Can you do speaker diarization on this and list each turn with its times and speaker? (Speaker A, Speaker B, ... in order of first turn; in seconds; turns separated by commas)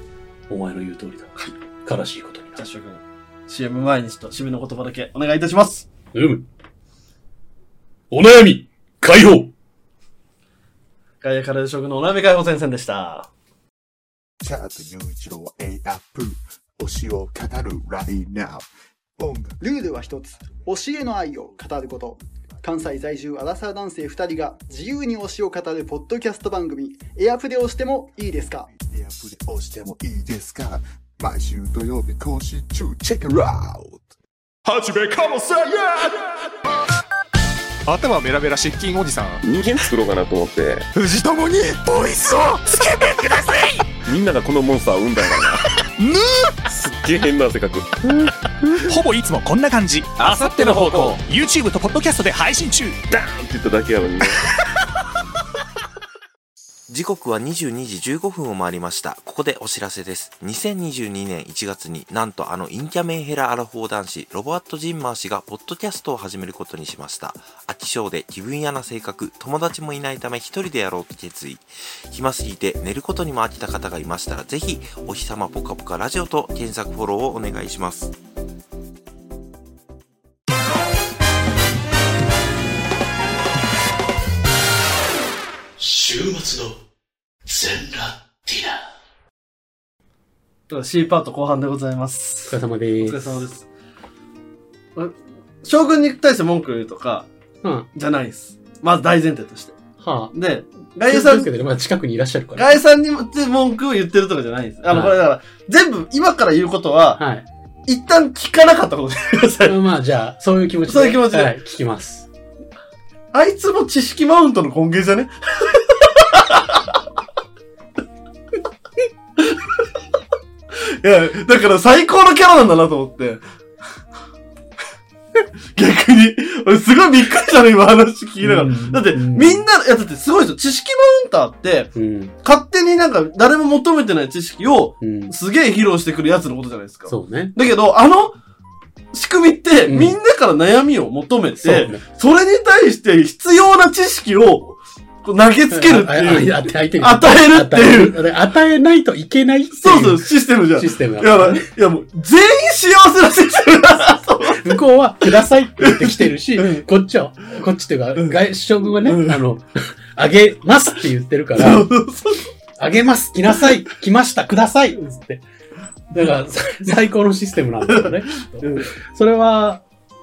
Speaker A: 0.5-1.3, Speaker A: 1.8-2.6, Speaker B: 2.5-5.9, Speaker A: 6.1-6.5, Speaker A: 8.1-9.5, Speaker B: 11.2-13.3, Speaker C: 14.4-19.6, Speaker D: 19.6-28.7, Speaker C: 28.8-34.1, Speaker C: 34.6-36.4, Speaker E: 37.9-39.4, Speaker F: 39.4-40.9, Speaker C: 41.0-43.6, Speaker F: 44.0-45.6, Speaker E: 46.0-46.6, Speaker F: 46.7-48.3, Speaker E: 48.9-53.0, Speaker F: 50.2-51.2, Speaker F: 53.1-54.4, Speaker G: 56.9-78.1, Speaker A: 85.8-86.8, Speaker A: 87.4-88.9, Speaker B: 90.7-93.7, Speaker A: 92.5-93.5, Speaker B: 94.9-97.3, Speaker A: 97.6-97.9, Speaker B: 97.9-99.8, Speaker A: 100.0-100.3, Speaker B: 100.3-101.5, Speaker A: 101.1-102.8, Speaker B: 102.5-107.2, Speaker A: 104.9-105.2, Speaker A: 107.2-107.5, Speaker B: 107.9-109.8, Speaker A: 109.6-112.3, Speaker B: 110.8-111.5, Speaker B: 113.3-116.8, Speaker B: 119.4-119.7, Speaker B: 120.7-123.4, Speaker B: 125.3-138.3, Speaker A: 128.4-129.6, Speaker A: 131.9-132.3, Speaker A: 135.0-135.3, Speaker A: 137.1-137.5, Speaker B: 139.1-148.2, Speaker A: 139.9-140.2, Speaker A: 141.6-142.0, Speaker A: 145.7-151.7, Speaker B: 149.7-154.8, Speaker A: 154.4-161.9, Speaker B: 155.8-156.8, Speaker B: 159.0-159.4, Speaker B: 161.6-162.5, Speaker A: 162.8-165.4, Speaker A: 166.1-169.8, Speaker B: 167.9-168.9